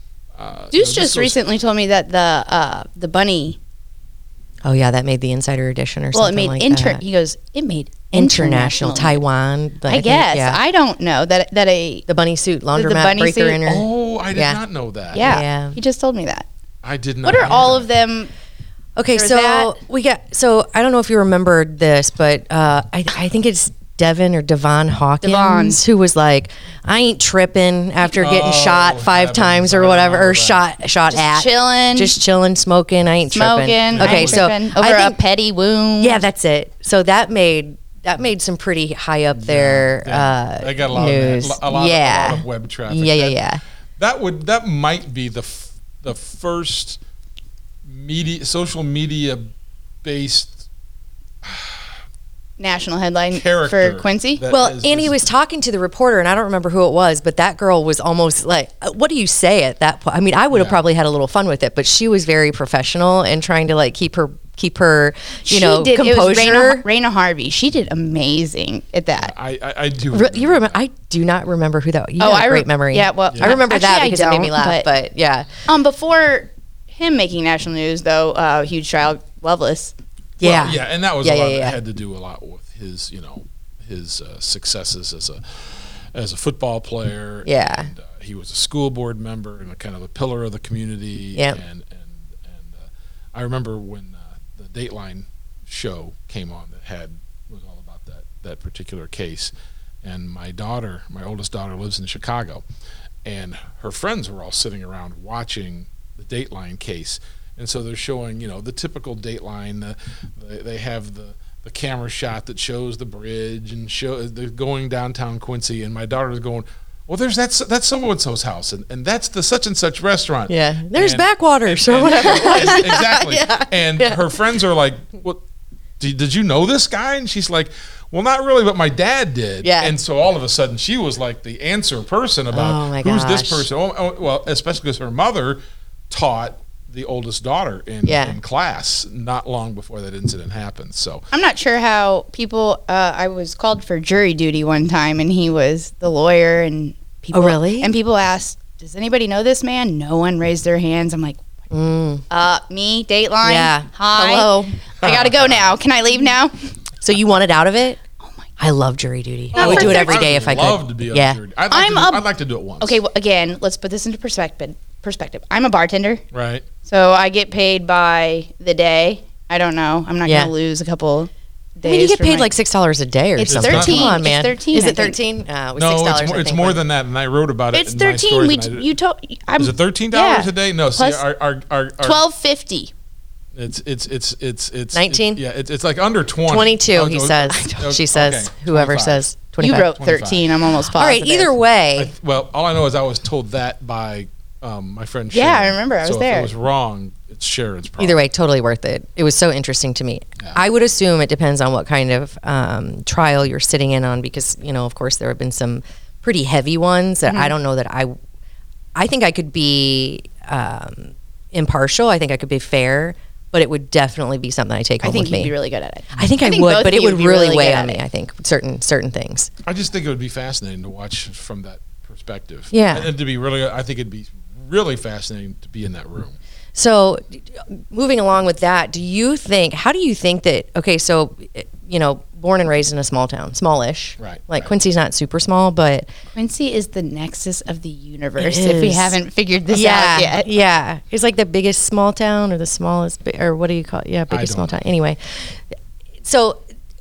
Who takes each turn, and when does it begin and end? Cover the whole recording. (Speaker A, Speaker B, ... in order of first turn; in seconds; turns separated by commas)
Speaker A: 0.4-1.4, Speaker B: 0.7-3.6, Speaker C: 4.6-7.0, Speaker B: 6.1-9.2, Speaker C: 8.1-10.6, Speaker B: 9.8-12.1, Speaker C: 12.1-14.6, Speaker B: 12.7-13.6, Speaker A: 13.6-15.4, Speaker B: 15.1-16.5, Speaker C: 15.1-15.8, Speaker A: 16.8-17.9, Speaker B: 17.2-18.3, Speaker C: 19.0-35.2, Speaker B: 19.1-19.7, Speaker B: 25.2-25.8, Speaker A: 28.1-30.6, Speaker B: 31.1-32.2, Speaker B: 33.3-36.2, Speaker A: 33.9-34.5, Speaker C: 36.0-43.6, Speaker A: 39.4-43.3, Speaker A: 44.0-47.0, Speaker A: 47.9-49.5, Speaker A: 50.0-50.6, Speaker A: 51.4-51.9, Speaker B: 52.6-54.4, Speaker A: 53.3-55.1, Speaker C: 54.5-66.8, Speaker A: 60.5-60.8, Speaker B: 65.5-69.3, Speaker A: 69.1-70.8, Speaker C: 70.1-75.5, Speaker B: 72.2-74.9, Speaker A: 73.3-73.6, Speaker B: 75.7-79.9, Speaker C: 80.4-81.8, Speaker A: 80.4-85.6, Speaker A: 86.1-99.5, Speaker C: 87.5-87.9, Speaker A: 100.0-102.6, Speaker A: 103.2-125.4, Speaker C: 120.5-124.2, Speaker A: 126.0-141.2, Speaker C: 129.6-129.9, Speaker C: 132.5-133.7, Speaker C: 138.0-138.4, Speaker B: 141.3-151.4, Speaker C: 147.3-147.9, Speaker C: 151.7-152.2, Speaker B: 152.3-156.5, Speaker C: 153.4-154.8, Speaker A: 155.0-155.8, Speaker C: 157.0-158.0, Speaker C: 158.6-161.4, Speaker A: 159.5-163.0, Speaker B: 159.5-160.4, Speaker B: 161.7-162.2, Speaker B: 162.8-166.2, Speaker A: 166.3-166.7, Speaker B: 166.8-172.5, Speaker C: 170.2-170.5, Speaker C: 171.8-176.8, Speaker B: 173.3-175.2, Speaker A: 173.5-174.2, Speaker A: 175.8-178.9, Speaker B: 177.7-181.2, Speaker A: 179.6-182.2, Speaker B: 182.0-182.9, Speaker A: 183.5-190.6, Speaker C: 184.9-185.4, Speaker C: 186.5-189.9, Speaker B: 189.6-191.5, Speaker C: 190.9-192.1, Speaker A: 192.0-198.2, Speaker B: 195.3-196.5, Speaker C: 198.0-208.2, Speaker B: 207.2-207.5, Speaker C: 208.9-215.5, Speaker B: 215.0-218.0, Speaker C: 216.1-219.5, Speaker A: 219.6-226.4, Speaker C: 222.7-223.1, Speaker C: 226.7-236.1, Speaker A: 234.2-234.7, Speaker B: 236.3-240.4, Speaker C: 238.4-239.2, Speaker C: 239.7-245.6, Speaker A: 244.3-244.8, Speaker C: 246.2-246.6